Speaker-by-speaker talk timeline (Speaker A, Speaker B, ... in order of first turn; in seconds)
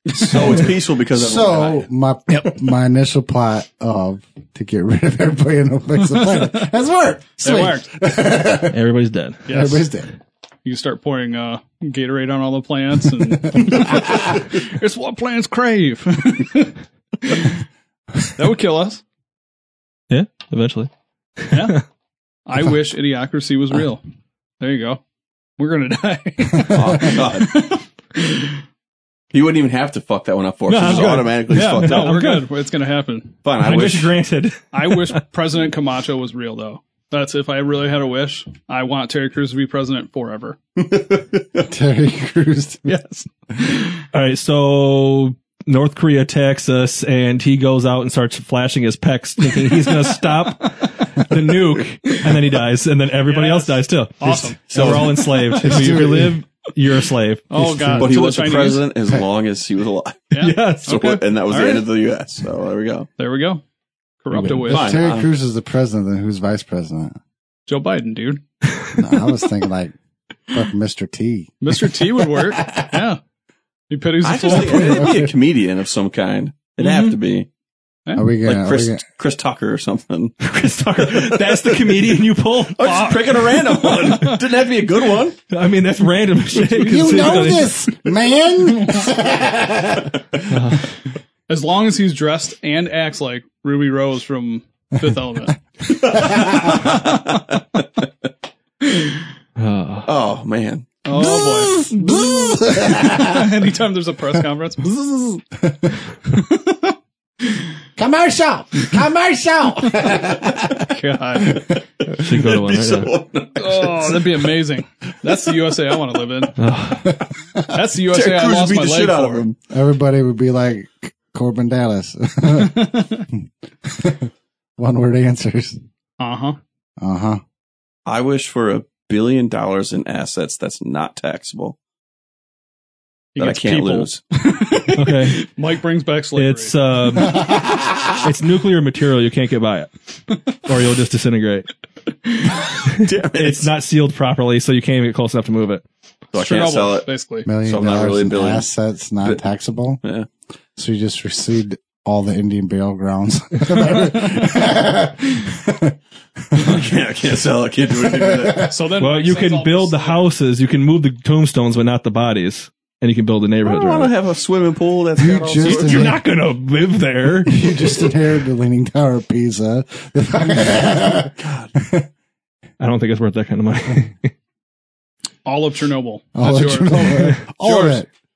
Speaker A: 0.2-1.8, 26.7-27.6, 29.3-32.1, 33.4-34.1, 40.8-41.4, 54.7-55.1, 58.0-63.1, 64.7-65.3, 74.2-77.5, 78.4-80.4, 81.0-82.1, 82.7-85.4, 96.1-97.8, 100.0-100.9, 112.1-114.5, 118.1-119.6, 128.1-131.8, 133.4-134.2, 142.9-143.7, 146.3-147.1, 147.6-148.7, 150.0-150.3, 156.5-158.7, 163.6-166.2, 171.4-171.7
Speaker B: 0.5-8.8, 9.5-10.1, 13.5-14.2, 41.6-42.9, 54.2-56.4, 57.5-58.1, 64.3-67.2, 69.0-69.9, 70.5-73.0, 74.7-75.3, 78.1-79.0, 86.6-90.4, 96.0-96.7, 101.1-103.6, 104.8-106.0, 108.0-111.6, 117.0-117.7, 119.7-125.8, 127.0-127.4, 137.3-137.8, 147.4-150.0, 150.8-155.9, 156.5-156.8, 158.0-158.7, 165.2-166.2, 167.4-172.1, 176.3-178.1
Speaker C: 6.1-6.6, 7.4-7.9, 9.5-9.8, 10.6-17.6, 18.4-19.0, 21.5-21.8, 22.4-24.0, 24.6-25.0, 25.6-28.6, 31.5-33.3, 34.7-40.6, 42.9-44.0, 53.2-56.1, 57.5-58.9, 60.3-61.9, 63.2-63.6, 64.2-65.0, 67.7-68.4, 71.6-73.2, 73.9-75.1, 76.8-77.2, 82.8-84.3, 87.0-87.3, 91.5-95.5, 96.2-97.2, 101.0-102.3, 102.8-104.9, 106.3-106.9, 110.9-111.7, 113.6-116.6, 117.7-119.4, 122.5-123.2, 126.2-126.6, 133.3-136.7, 146.3-147.5, 158.7-160.2, 175.4-178.0
Speaker D: 8.7-9.5, 20.1-21.8, 30.7-32.5, 33.6-35.2, 44.1-57.5, 60.4-61.1, 80.4-83.2, 85.5-87.8, 90.5-90.9, 99.6-100.1, 112.2-113.1, 116.6-117.1, 134.9-135.5, 136.3-137.5, 138.2-139.9, 140.5-141.7, 142.8-145.8, 159.0-164.1, 165.6-167.7, 172.8-174.3, 177.0-177.4